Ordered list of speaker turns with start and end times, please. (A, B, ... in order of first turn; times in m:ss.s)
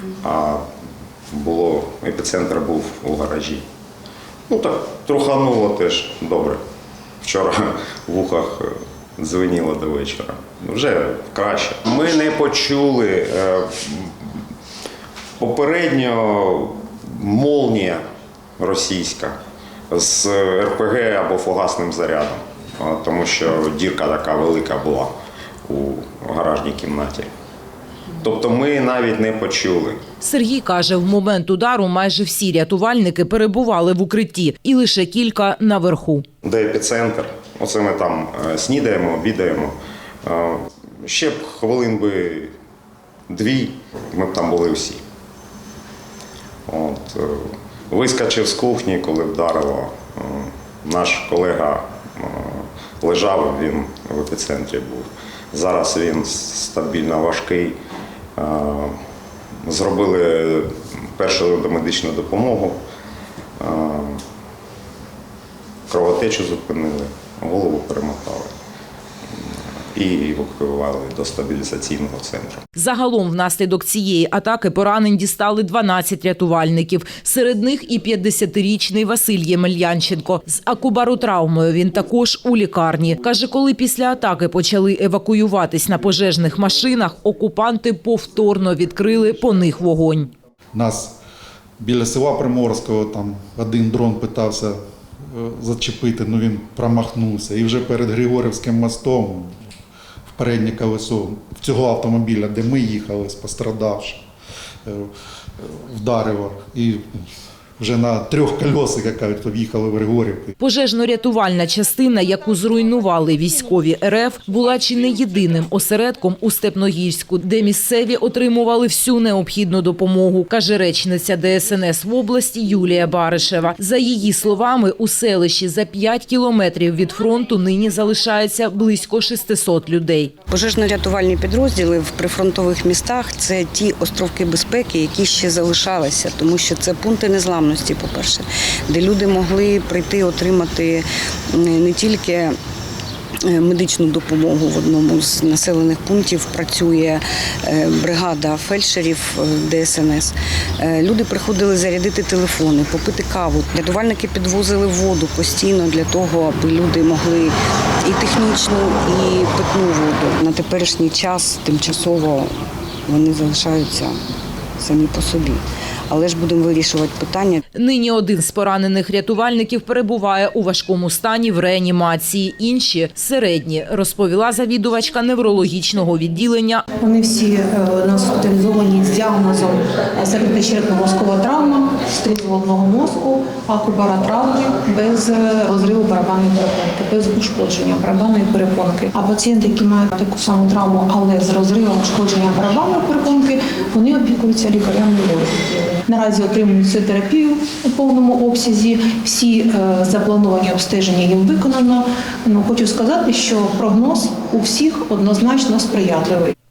0:00.2-0:00.6 A
0:01.3-0:03.6 A
0:04.5-0:06.6 A
0:07.2-0:14.3 A
0:15.4-0:18.0 A
0:18.6-0:19.4 A
0:19.9-0:25.1 A
0:25.7-0:27.3 A
0:28.2-0:30.0 A
0:30.2-0:36.2 B
0:36.4-0:42.5 A
0:43.3-0:45.0 A
0:46.7-0:57.8 A
0:58.4-0:58.9 A
0:59.6-1:02.8 A
1:03.6-1:04.2 A
1:05.9-1:08.5 A
1:09.9-1:12.6 A
1:12.8-1:30.3 B
1:30.7-1:31.1 C
1:31.8-1:34.8 C
1:35.3-1:39.5 C
1:40.3-1:44.2 C
1:44.8-1:47.2 C
1:47.8-1:50.5 C
1:50.6-2:10.3 B
2:10.5-2:22.6 D
2:23.4-2:42.5 D
2:43.1-2:44.1 D
2:44.8-2:47.6 D
2:47.7-2:56.8 B
2:57.0-3:26.5 E